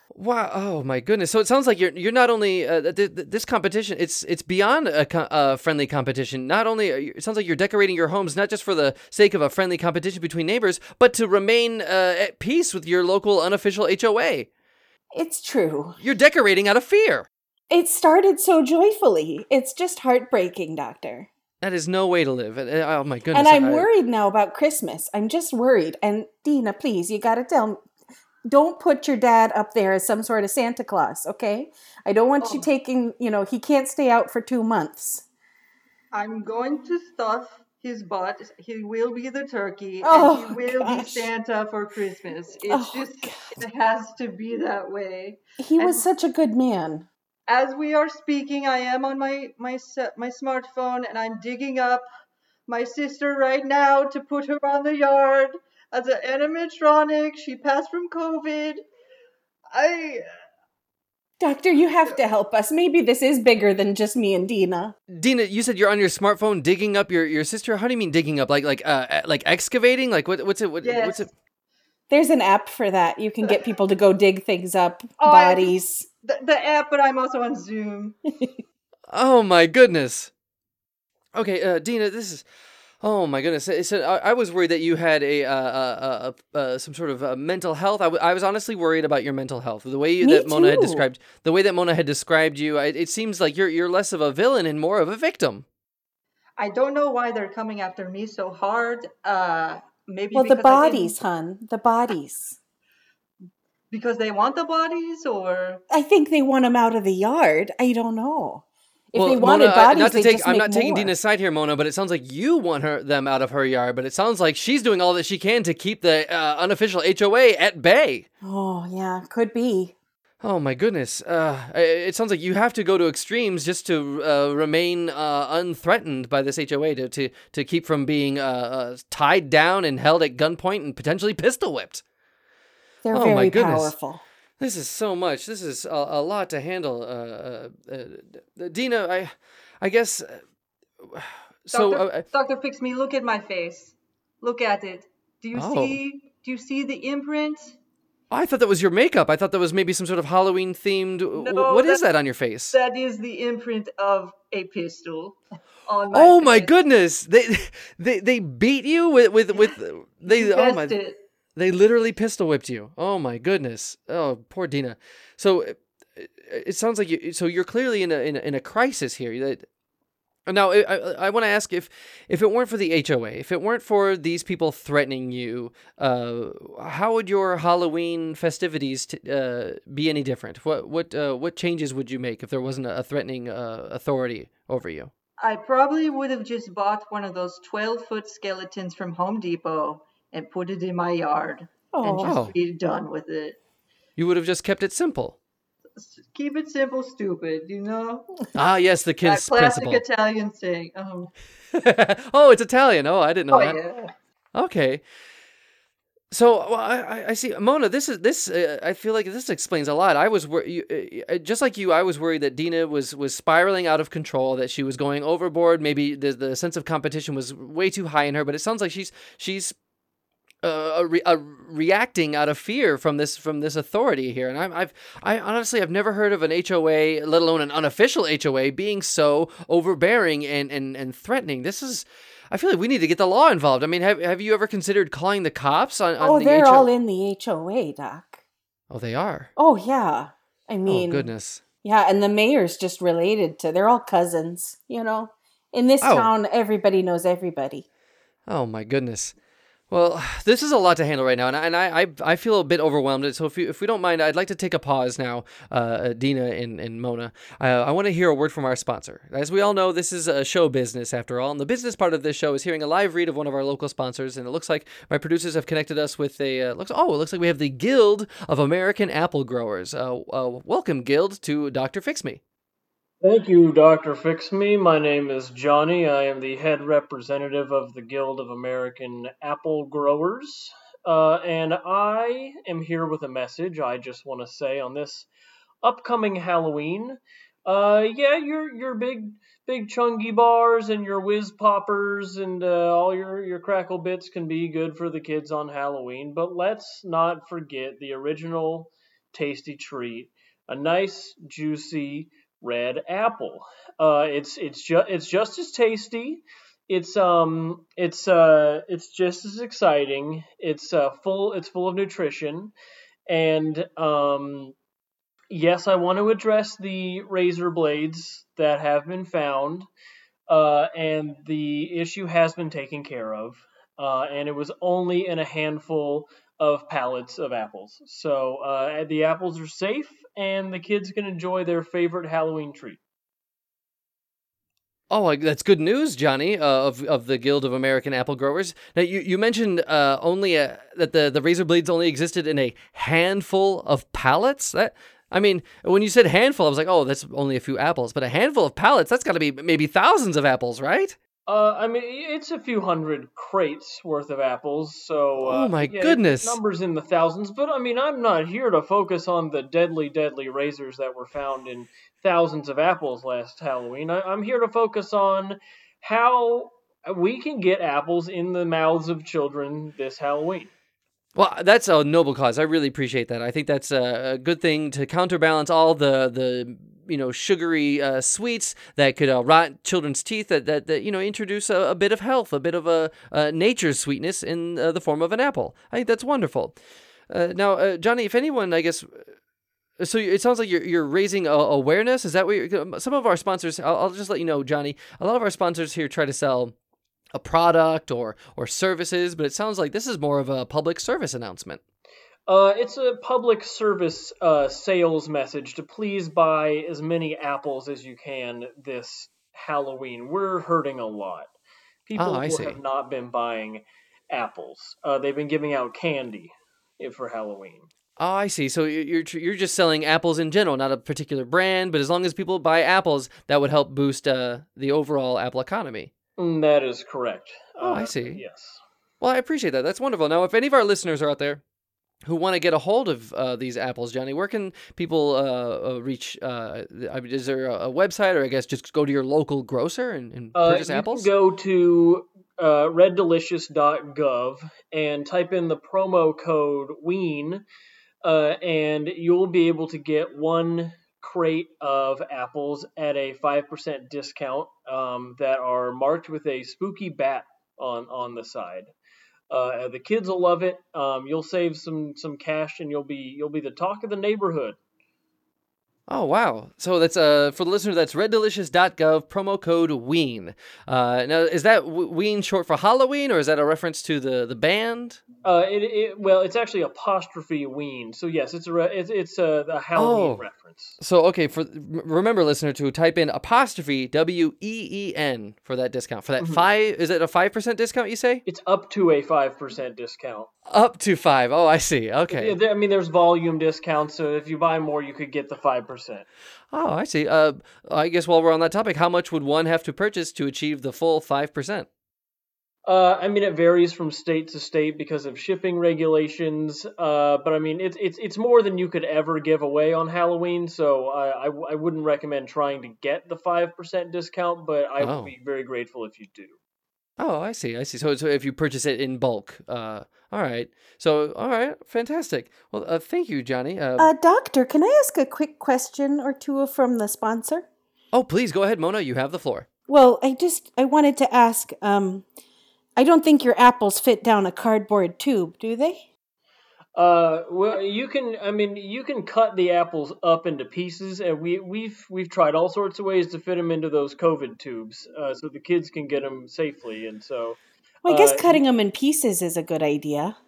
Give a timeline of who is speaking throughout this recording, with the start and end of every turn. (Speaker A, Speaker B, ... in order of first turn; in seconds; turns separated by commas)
Speaker A: 0.1-14.5, Speaker B: 15.1-16.0, Speaker A: 16.0-17.3, Speaker B: 17.7-21.3, Speaker A: 21.6-23.9, Speaker B: 23.3-27.8, Speaker B: 28.5-35.2, Speaker C: 32.4-32.7, Speaker C: 36.1-46.0, Speaker B: 40.0-41.3, Speaker B: 42.7-43.6, Speaker B: 45.6-47.1, Speaker C: 47.5-52.1, Speaker C: 52.7-58.8, Speaker C: 59.7-60.3, Speaker B: 61.4-64.9, Speaker A: 65.1-71.3, Speaker C: 70.8-71.3, Speaker B: 72.1-76.0, Speaker C: 75.2-78.2, Speaker A: 79.1-80.3, Speaker A: 81.3-82.4, Speaker A: 83.0-95.7, Speaker B: 90.2-91.1, Speaker C: 96.6-101.2, Speaker B: 100.3-102.6, Speaker C: 103.9-105.8, Speaker B: 105.9-111.1, Speaker A: 109.1-118.3, Speaker B: 118.4-119.9, Speaker A: 120.4-132.0, Speaker B: 133.0-134.2, Speaker A: 133.1-133.9, Speaker A: 134.6-140.4, Speaker A: 141.0-142.2, Speaker C: 141.7-147.8, Speaker A: 145.5-146.0, Speaker A: 148.3-152.8, Speaker C: 151.4-152.0, Speaker C: 152.7-156.7, Speaker A: 156.1-160.9, Speaker C: 159.5-161.2, Speaker A: 161.6-169.7, Speaker A: 170.5-185.1, Speaker C: 185.4-193.6, Speaker B: 191.9-192.3, Speaker A: 192.2-192.5, Speaker A: 194.2-195.4, Speaker C: 195.9-198.5, Speaker A: 198.5-200.0, Speaker C: 199.2-201.3, Speaker A: 201.7-203.8, Speaker C: 203.5-204.1, Speaker A: 204.5-205.0, Speaker A: 206.3-219.8, Speaker A: 220.6-236.9, Speaker B: 236.2-238.4, Speaker A: 238.9-239.5, Speaker B: 239.6-241.3, Speaker A: 240.9-241.6, Speaker B: 241.8-247.8, Speaker A: 246.0-246.3, Speaker A: 248.5-249.3, Speaker A: 249.9-272.4, Speaker D: 273.2-285.3, Speaker D: 285.8-312.7, Speaker D: 313.3-314.8, Speaker D: 315.5-319.9, Speaker D: 320.5-333.0, Speaker A: 335.1-351.1, Speaker D: 351.5-370.7, Speaker A: 355.4-356.6, Speaker A: 371.3-386.8, Speaker A: 387.3-389.3, Speaker A: 390.0-396.7, Speaker A: 397.3-401.8, Speaker D: 402.5-411.5, Speaker D: 412.1-417.9, Speaker A: 412.1-412.8, Speaker A: 418.2-426.1, Speaker D: 426.4-428.8, Speaker A: 427.8-428.4, Speaker A: 429.2-431.6, Speaker A: 432.2-441.3, Speaker D: 440.5-447.6, Speaker D: 448.2-458.9, Speaker D: 459.5-464.8, Speaker A: 466.1-475.2, Speaker D: 475.4-481.0, Speaker A: 479.9-480.4, Speaker A: 481.0-488.4, Speaker D: 488.4-490.5, Speaker A: 490.7-492.6, Speaker D: 492.3-496.2, Speaker A: 496.7-501.9, Speaker D: 502.9-516.6, Speaker A: 515.0-515.3, Speaker A: 517.2-524.1, Speaker B: 524.0-527.7, Speaker A: 528.1-529.7, Speaker B: 529.9-532.2, Speaker B: 533.0-536.1, Speaker D: 536.9-548.6, Speaker B: 548.0-550.4